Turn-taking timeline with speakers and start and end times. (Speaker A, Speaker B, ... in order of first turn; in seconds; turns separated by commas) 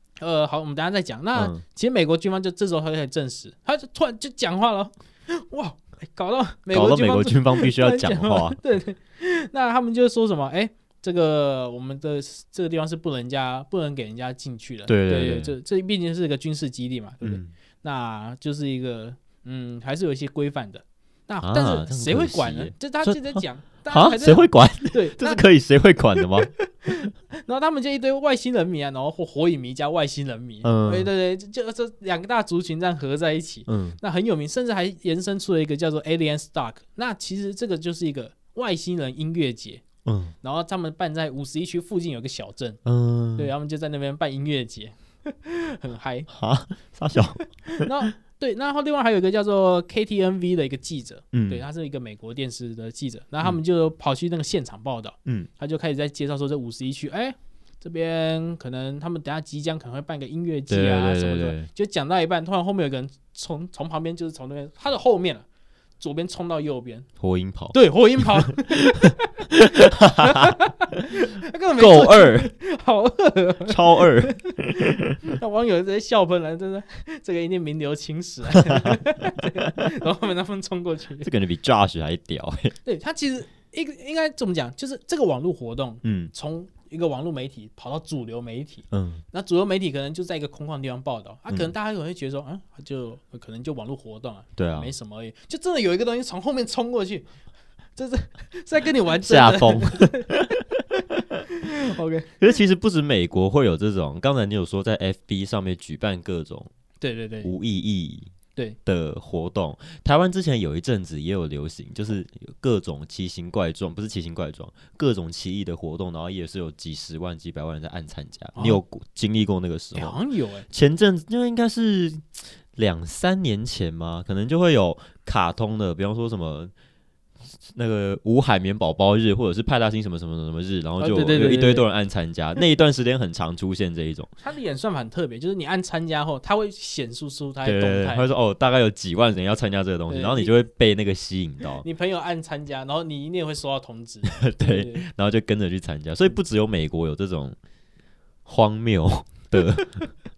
Speaker A: 0.2-25.4, Speaker B: 1.3-1.6, Speaker B: 6.7-8.6, Speaker B: 14.9-15.5, Speaker B: 17.2-17.5, Speaker B: 21.4-26.5, Speaker A: 26.2-39.8, Speaker B: 30.6-31.1, Speaker B: 33.7-34.0, Speaker B: 40.0-40.3, Speaker A: 40.4-42.8, Speaker B: 42.8-43.5, Speaker A: 43.4-46.3, Speaker B: 46.3-47.9, Speaker A: 47.8-65.4, Speaker B: 51.3-51.6, Speaker B: 60.7-61.7, Speaker A: 66.0-67.1, Speaker B: 67.2-68.7, Speaker A: 67.7-69.4, Speaker B: 69.8-70.5, Speaker A: 70.1-81.3, Speaker B: 71.8-72.5, Speaker B: 73.7-75.2, Speaker B: 78.6-79.0, Speaker B: 81.2-82.8, Speaker A: 82.8-97.3, Speaker B: 86.0-86.3, Speaker B: 88.9-89.2, Speaker B: 94.5-94.9, Speaker A: 98.0-100.6, Speaker B: 99.2-100.4, Speaker A: 101.5-102.3, Speaker B: 102.4-106.7, Speaker A: 107.0-107.5, Speaker B: 107.4-108.3, Speaker B: 108.8-126.7, Speaker A: 118.5-118.8, Speaker A: 119.9-120.7, Speaker B: 127.7-134.3, Speaker A: 131.0-131.8, Speaker A: 134.4-138.3, Speaker B: 137.6-141.8, Speaker A: 140.1-140.5, Speaker A: 141.8-145.1, Speaker B: 144.2-147.6, Speaker B: 148.4-150.1